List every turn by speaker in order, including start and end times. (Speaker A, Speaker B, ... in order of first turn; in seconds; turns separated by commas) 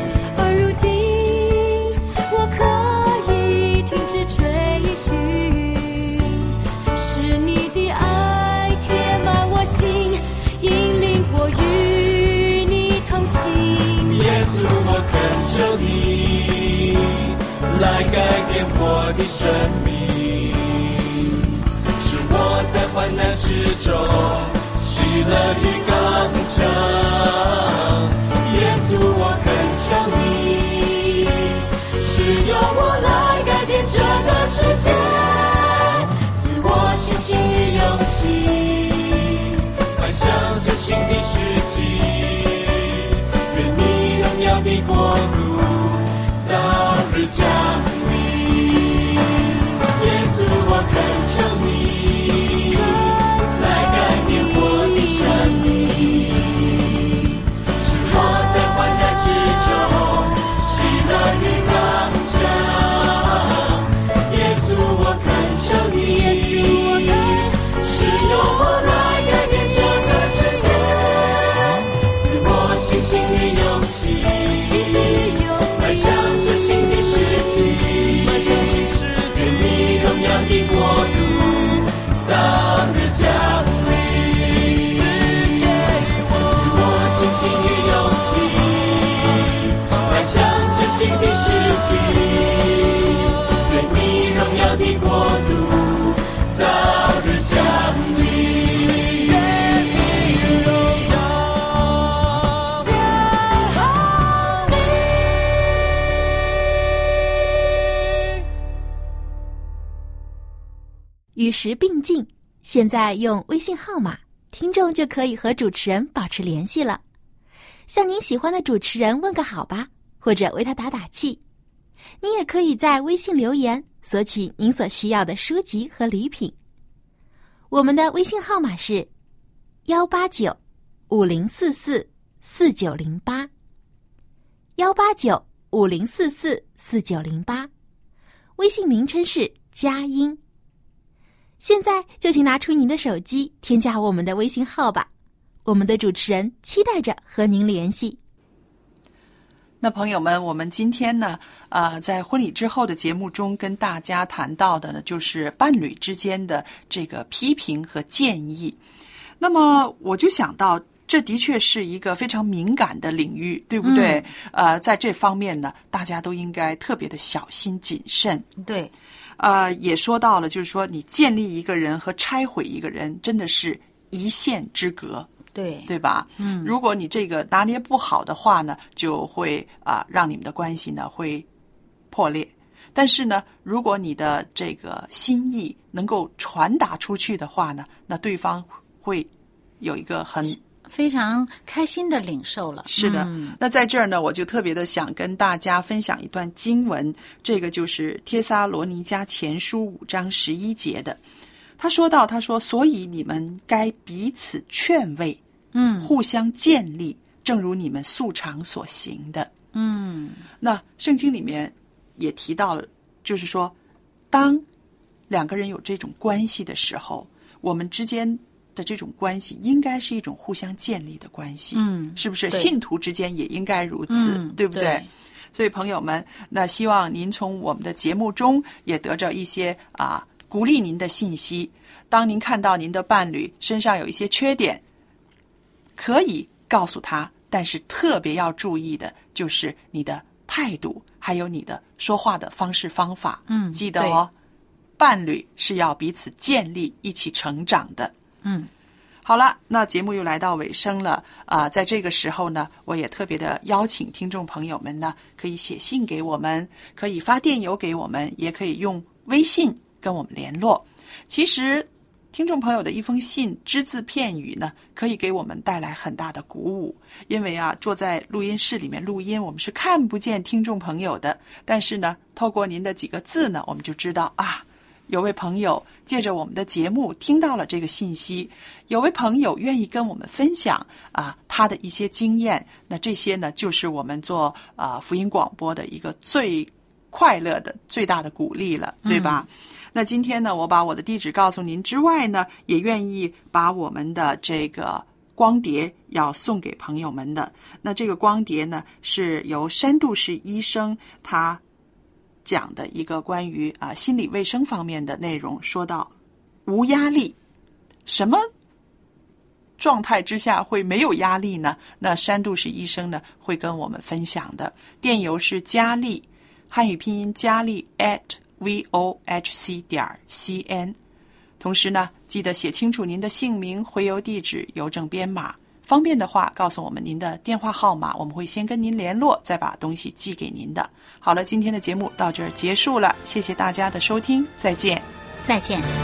Speaker A: 0.3-14.2, Speaker B: 14.1-101.5, Speaker A: 66.3-67.5, Speaker A: 74.7-75.8, Speaker C: 111.3-117.0, Speaker C: 117.9-121.4, Speaker C: 122.2-126.5, Speaker C: 127.7-129.1, Speaker C: 129.9-130.6, Speaker C: 131.1-133.5, Speaker C: 134.8-137.7, Speaker C: 138.6-140.4, Speaker C: 141.6-145.1, Speaker C: 145.7-148.2, Speaker D: 149.8-158.8, Speaker D: 159.4-168.5, Speaker E: 163.8-164.3, Speaker E: 168.6-168.9, Speaker D: 169.4-175.3, Speaker E: 175.5-176.7, Speaker D: 175.9-181.5, Speaker D: 182.1-190.6, Speaker E: 190.7-193.6, Speaker D: 192.9-201.2, Speaker D: 201.8-205.4, Speaker E: 205.7-206.1, Speaker D: 206.0-209.5, Speaker E: 209.7-210.4, Speaker D: 210.6-213.8, Speaker D: 214.3-214.7, Speaker D: 215.3-234.8, Speaker E: 221.7-222.7, Speaker E: 224.1-225.1, Speaker D: 236.0-244.3, Speaker E: 243.5-244.2, Speaker D: 245.0-248.1, Speaker E: 248.4-248.7, Speaker D: 249.2-301.6, Speaker E: 289.1-289.4, Speaker D: 302.4-306.1, Speaker D: 306.7-307.4, Speaker D: 308.1-308.5, Speaker D: 309.8-321.0, Speaker D: 321.6-335.1, Speaker E: 335.4-335.9